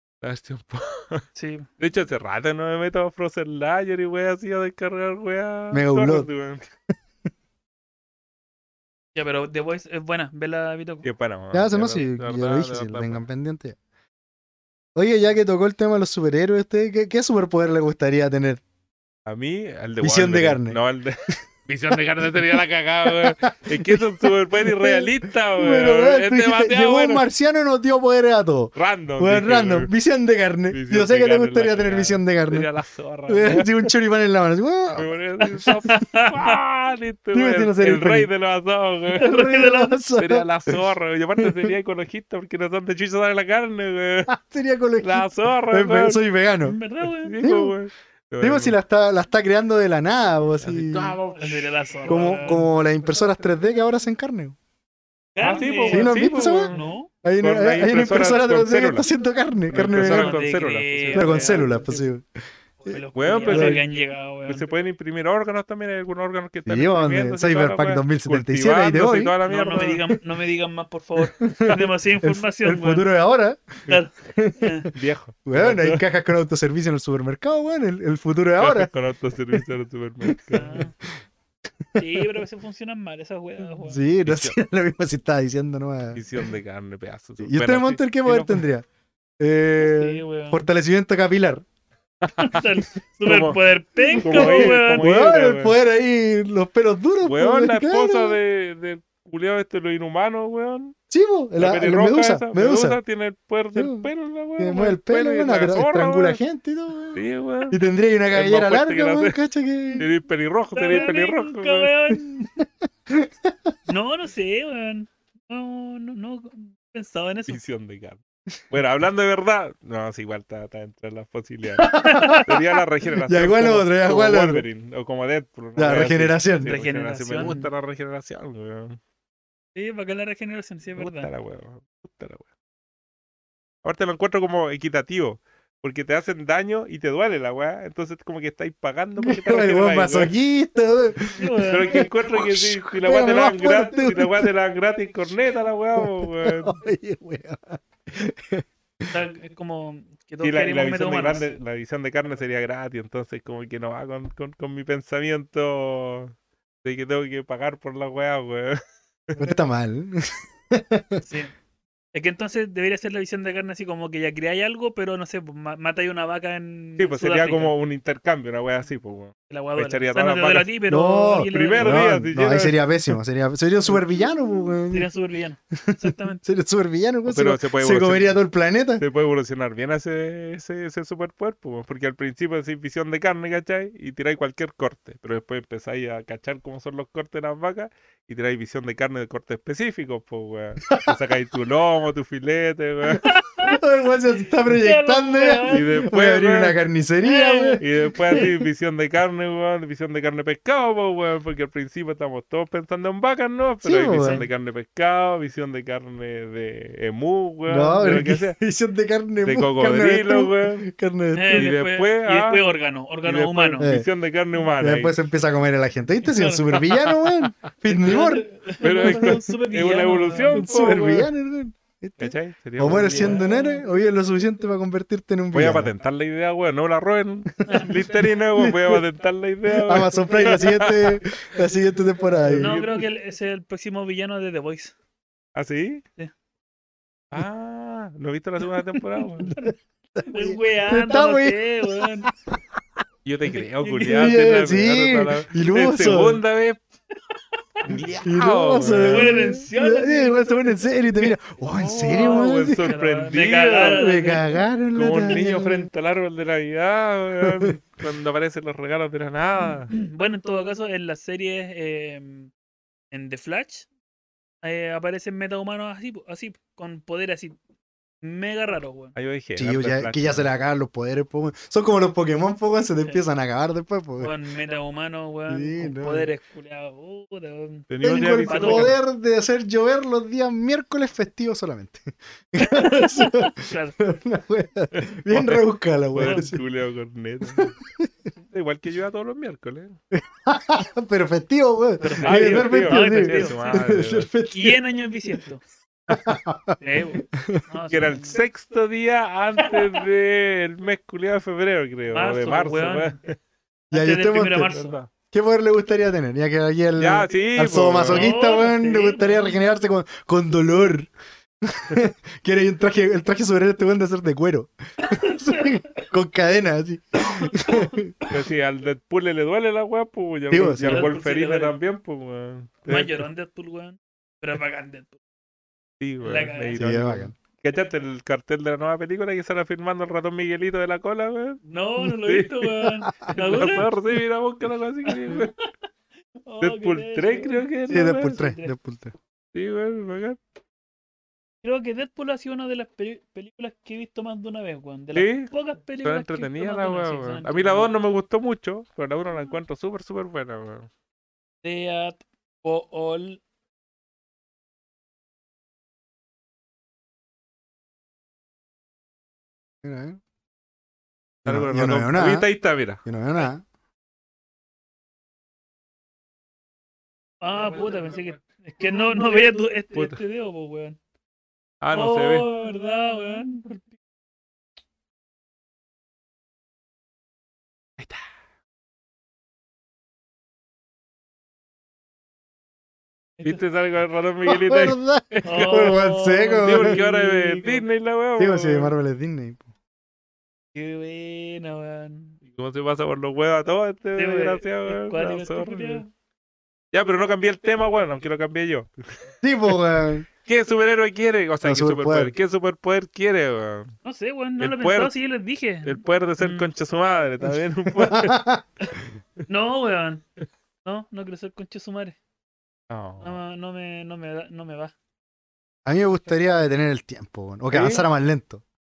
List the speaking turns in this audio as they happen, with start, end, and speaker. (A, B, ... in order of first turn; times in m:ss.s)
0:00.2-0:01.2 A
0:01.3-0:01.7 B
0:01.8-0:06.6 A
0:05.7-0:06.3 C
0:09.1-0:11.1 B
0:11.0-0:13.2 A
0:11.5-0:13.8 C
0:15.0-0:18.6 C
0:19.2-0:27.2 A
0:20.0-0:20.8 C
0:23.0-0:32.7 C
0:28.7-0:29.9 A
0:30.7-0:33.9 A
0:33.3-0:35.8 C
0:34.9-0:39.3 A
0:35.8-0:36.5 B
0:37.3-0:38.3 C
0:39.2-0:40.0 B
0:39.2-0:40.8 C
0:40.2-0:44.3 A
0:41.4-0:41.7 C
0:44.3-0:46.8 C
0:45.0-0:46.2 A
0:46.6-0:47.3 B
0:47.2-0:48.8 A
0:47.4-0:47.7 C
0:48.4-0:51.2 C
0:50.6-0:52.6 A
0:51.4-0:52.7 B
0:52.1-0:54.6 C
0:55.4-0:57.1 B
0:55.4-0:59.1 A
0:55.8-0:56.7 C
0:57.2-1:00.4 C
0:59.7-1:02.0 A
0:59.8-1:02.0 B
1:01.1-1:02.2 C
1:02.8-1:04.7 B
1:03.1-1:03.8 A
1:03.4-1:03.8 C
1:04.4-1:10.0 A
1:06.6-1:09.3 C
1:09.4-1:13.0 B
1:11.2-1:14.9 C
1:13.9-1:14.9 B
1:14.9-1:16.0 A
1:15.4-1:18.9 C
1:18.6-1:20.7 A
1:20.2-1:20.8 C
1:20.5-1:20.9 B
1:21.9-1:22.2 C
1:22.0-1:24.0 B
1:23.8-1:26.2 C
1:24.2-1:24.6 A
1:26.1-1:28.6 A
1:27.4-1:28.8 C
1:29.4-1:31.6 C
1:29.8-1:30.6 B
1:32.4-1:35.0 B
1:33.2-1:33.6 A
1:34.2-1:35.7 A
1:34.2-1:38.4 C
1:37.2-1:40.9 A
1:41.1-1:43.0 C
1:41.6-1:46.4 A
1:43.7-1:50.1 C
1:47.1-1:47.8 A
1:48.3-1:49.4 A
1:50.0-1:51.9 A
1:50.7-1:52.5 B
1:50.9-1:51.2 C
1:52.6-1:53.7 C
1:53.9-1:57.6 B
1:57.5-2:09.0 A
2:01.8-2:02.7 C
2:01.9-2:02.4 B
2:03.2-2:04.6 C
2:05.8-2:06.7 C
2:06.6-2:07.7 B
2:09.7-2:11.3 B
2:11.0-2:12.4 A
2:13.8-2:20.3 A
2:19.2-2:24.5 C
2:21.4-2:22.1 B
2:21.7-2:26.7 A
2:26.0-2:29.1 C
2:29.1-2:31.5 B
2:30.4-2:39.5 A
2:39.4-2:41.2 C
2:41.2-2:41.5 B
2:42.1-2:47.7 B
2:47.0-2:50.7 A
2:49.5-2:52.0 B
2:50.9-2:55.1 C
2:51.5-2:52.8 A
2:53.9-2:56.4 B
2:55.8-2:59.0 C
2:57.2-2:58.4 A
2:59.0-3:13.3 A
3:10.8-3:11.2 C
3:13.2-3:13.8 B
3:13.6-3:18.5 C
3:14.6-3:16.0 B
3:15.7-3:16.8 A
3:17.2-3:18.5 B
3:17.8-3:28.6 A
3:23.8-3:24.4 C
3:24.2-3:24.5 B
3:27.7-3:31.7 C
3:29.4-3:30.9 A
3:31.3-3:33.9 B
3:31.5-3:32.7 A
3:33.2-3:35.2 A
3:33.8-3:34.1 C
3:34.8-3:38.5 C
3:36.2-3:36.9 B
3:37.9-3:40.6 B
3:38.8-3:41.3 A
3:39.0-3:39.3 C
3:40.5-3:45.9 C
3:42.2-3:43.4 A
3:42.9-3:43.8 B
3:45.5-3:51.2 A
3:47.7-3:48.0 B
3:47.7-3:49.0 C
3:49.7-3:52.9 C
3:50.4-3:50.6 B
3:52.4-3:52.8 A
3:52.5-3:54.9 B
3:55.5-3:56.0 A
3:57.3-3:59.5 A
3:59.4-4:02.6 C
4:00.2-4:02.3 B
4:03.2-4:06.8 A
4:03.8-4:06.4 C
4:07.8-4:09.4 A
4:07.9-4:12.9 C
4:09.0-4:11.3 B
4:11.6-4:14.2 A
4:12.1-4:14.6 B
4:13.8-4:15.9 C
4:14.9-4:19.9 A
4:17.4-4:17.7 C
4:19.9-4:22.5 B
4:23.1-4:23.9 B
4:24.6-4:27.6 B
4:28.2-4:29.1 B
4:29.1-4:30.5 A
4:29.6-4:34.3 C
4:34.2-4:37.9 B
4:35.5-4:36.3 C
4:37.9-4:39.0 A
4:38.0-4:46.6 C
4:38.4-4:38.9 B
4:42.6-4:44.0 B
4:44.9-4:47.8 A
4:46.2-4:46.5 B
4:47.5-4:48.0 C
4:48.5-4:50.0 A
4:50.1-4:54.8 C
4:52.0-4:53.9 B
4:52.2-4:54.3 A
4:54.5-4:55.6 B
4:56.1-4:57.6 C
4:56.8-4:58.4 B
4:57.9-5:03.4 A
4:59.6-4:59.8 B
5:02.1-5:03.2 B
5:03.9-5:04.9 B
5:03.9-5:04.8 C
5:04.7-5:05.1 A
5:05.3-5:11.1 C
5:07.0-5:08.3 A
5:08.1-5:09.5 B
5:11.6-5:18.1 C
5:15.0-5:16.0 B
5:17.1-5:18.3 B
5:18.3-5:23.2 A
5:20.5-5:21.1 C
5:20.8-5:21.8 B
5:22.9-5:25.2 B
5:26.0-5:31.6 A
5:26.2-5:26.9 B
5:26.8-5:27.4 C
5:31.6-5:33.8 B
5:32.2-5:32.6 A
5:33.0-5:33.3 C
5:33.3-5:35.5 A
5:35.0-5:35.6 B
5:36.4-5:38.7 B
5:36.6-5:38.5 A
5:37.9-5:39.1 C
5:39.5-5:40.4 A
5:41.6-5:47.9 B
5:45.1-5:45.5 A
5:46.0-5:50.9 A
5:51.6-5:53.4 B
5:59.8-6:00.2 C
6:01.4-6:02.5 C
6:01.4-6:03.0 A
6:03.0-6:03.6 C
6:07.4-6:11.0 B
6:09.9-6:10.2 A
6:11.8-6:12.5 A
6:11.9-6:13.9 B
6:23.4-6:26.0 A
6:24.4-6:27.0 C
6:25.4-6:27.8 B
6:26.6-6:28.9 A
6:28.4-6:29.7 C
6:30.7-6:32.4 B
6:32.4-6:36.0 A
6:34.2-6:36.1 B
6:36.9-6:39.0 A
6:39.4-6:40.3 C
6:40.4-6:43.9 A
6:41.6-6:42.3 C
6:44.0-6:46.7 B
6:44.6-6:45.1 A
6:45.8-6:48.4 A
6:48.0-6:48.6 C
6:49.5-6:50.2 B
6:50.8-6:52.2 B
6:52.9-6:53.4 A
6:53.2-6:54.9 B
6:55.8-6:58.6 C
6:57.7-6:58.0 A